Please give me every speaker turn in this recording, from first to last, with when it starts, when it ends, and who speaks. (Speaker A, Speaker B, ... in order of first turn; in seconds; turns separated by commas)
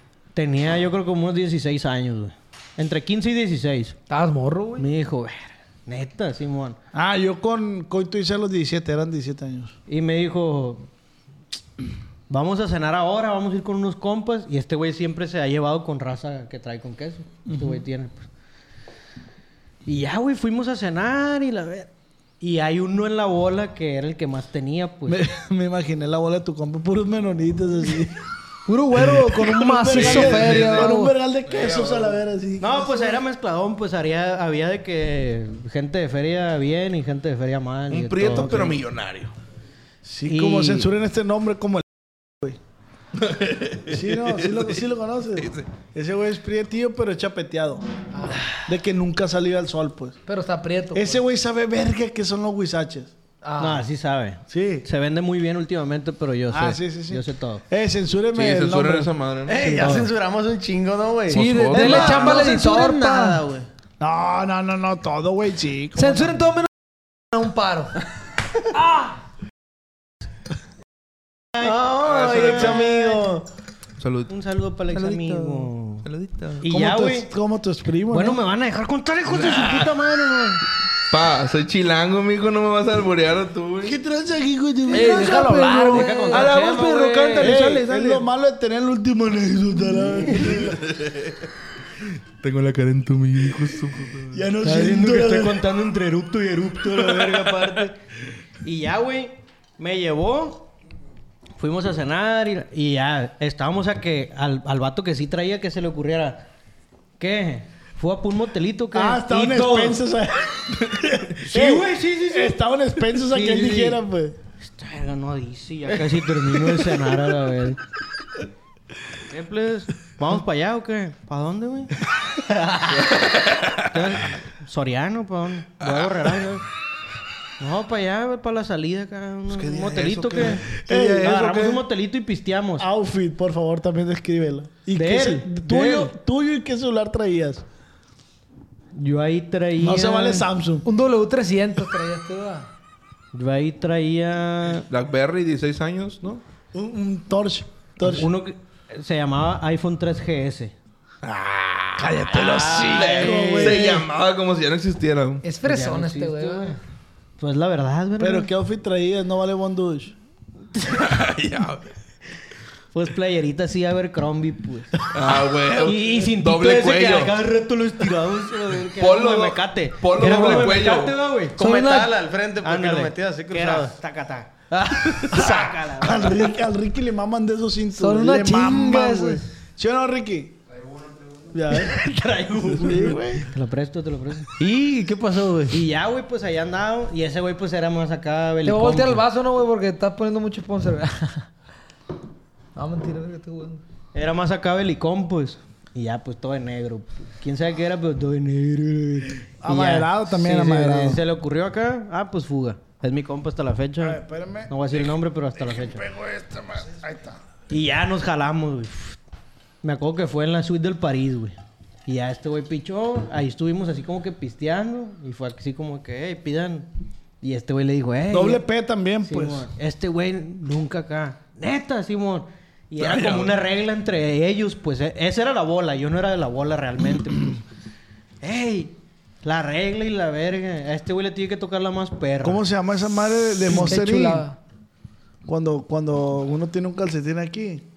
Speaker A: 0.3-4.0, Speaker B: 4.1-4.9, Speaker A: 4.8-6.8, Speaker C: 6.9-9.7, Speaker A: 9.9-10.9, Speaker A: 12.3-18.3, Speaker C: 17.5-17.8, Speaker A: 19.9-21.9, Speaker A: 22.4-25.2, Speaker C: 25.1-28.2, Speaker B: 28.7-31.1, Speaker C: 29.0-33.1, Speaker D: 29.9-30.9, Speaker D: 31.5-32.2, Speaker A: 32.6-38.8, Speaker D: 37.9-39.3, Speaker C: 40.0-42.6, Speaker A: 40.3-40.9, Speaker D: 43.2-44.7, Speaker C: 43.9-47.8, Speaker D: 45.4-45.7, Speaker B: 48.1-48.4, Speaker C: 48.7-50.2, Speaker B: 50.3-51.2, Speaker C: 50.9-53.1, Speaker B: 53.4-53.9, Speaker A: 53.6-57.6, Speaker C: 54.5-54.9, Speaker C: 56.5-60.1, Speaker D: 58.3-59.9, Speaker E: 59.5-63.7, Speaker A: 59.8-60.0, Speaker D: 61.3-62.4, Speaker B: 61.3-63.4, Speaker C: 64.0-66.4, Speaker B: 66.0-66.7, Speaker B: 67.3-68.0, Speaker B: 68.8-69.1, Speaker E: 71.6-73.5, Speaker D: 72.0-73.0, Speaker D: 74.0-74.3, Speaker A: 74.3-76.1, Speaker D: 74.9-75.5, Speaker D: 76.0-76.6, Speaker A: 76.6-77.3, Speaker C: 76.7-78.4, Speaker A: 78.1-80.6, Speaker D: 79.3-79.9, Speaker D: 81.1-84.0, Speaker C: 83.8-86.3, Speaker B: 84.9-86.6, Speaker E: 85.8-87.8, Speaker D: 86.3-88.2, Speaker C: 87.4-90.9, Speaker D: 90.6-91.3, Speaker D: 92.4-94.4, Speaker C: 94.3-95.6, Speaker A: 94.6-98.0, Speaker A: 98.6-100.7, Speaker A: 101.6-106.5, Speaker A: 107.2-110.0, Speaker C: 108.9-114.4, Speaker A: 111.5-112.6, Speaker A: 113.3-114.0, Speaker A: 114.6-117.8, Speaker A: 119.3-122.0, Speaker D: 123.0-123.8, Speaker A: 123.9-126.6, Speaker D: 125.8-126.4, Speaker A: 127.6-132.9, Speaker D: 129.5-130.8, Speaker C: 130.7-131.8, Speaker C: 132.8-137.6, Speaker A: 134.9-136.1, Speaker A: 138.9-140.5, Speaker C: 139.8-140.9, Speaker B: 140.8-142.7, Speaker A: 143.3-144.9, Speaker D: 144.9-146.4, Speaker C: 146.7-148.3, Speaker A: 148.0-150.8, Speaker D: 151.2-155.4, Speaker C: 152.0-154.1, Speaker A: 152.3-153.9, Speaker B: 155.4-156.8, Speaker A: 155.6-156.8, Speaker A: 157.4-158.5, Speaker C: 158.2-160.2, Speaker D: 160.9-161.9, Speaker A: 162.9-165.1, Speaker D: 165.1-167.3, Speaker A: 165.8-171.6, Speaker D: 169.0-171.2, Speaker E: 171.6-173.9, Speaker B: 171.6-172.2, Speaker A: 172.6-174.5, Speaker E: 174.7-175.4, Speaker A: 175.3-176.4, Speaker C: 175.3-180.6, Speaker B: 178.0-179.4, Speaker C: 181.5-183.5, Speaker A: 181.7-184.5, Speaker E: 184.6-185.8, Speaker A: 185.7-189.2, Speaker B: 188.6-191.5, Speaker B: 192.8-193.8, Speaker A: 194.1-206.1, Speaker C: 199.6-201.2, Speaker C: 204.0-204.7, Speaker C: 205.6-207.4, Speaker A: 207.7-209.2, Speaker A: 209.8-216.9, Speaker A: 217.4-218.6, Speaker C: 218.3-219.7, Speaker A: 219.2-227.6, Speaker D: 223.0-223.6, Speaker A: 228.4-232.6, Speaker C: 232.4-234.5, Speaker B: 233.7-234.6, Speaker C: 235.5-237.8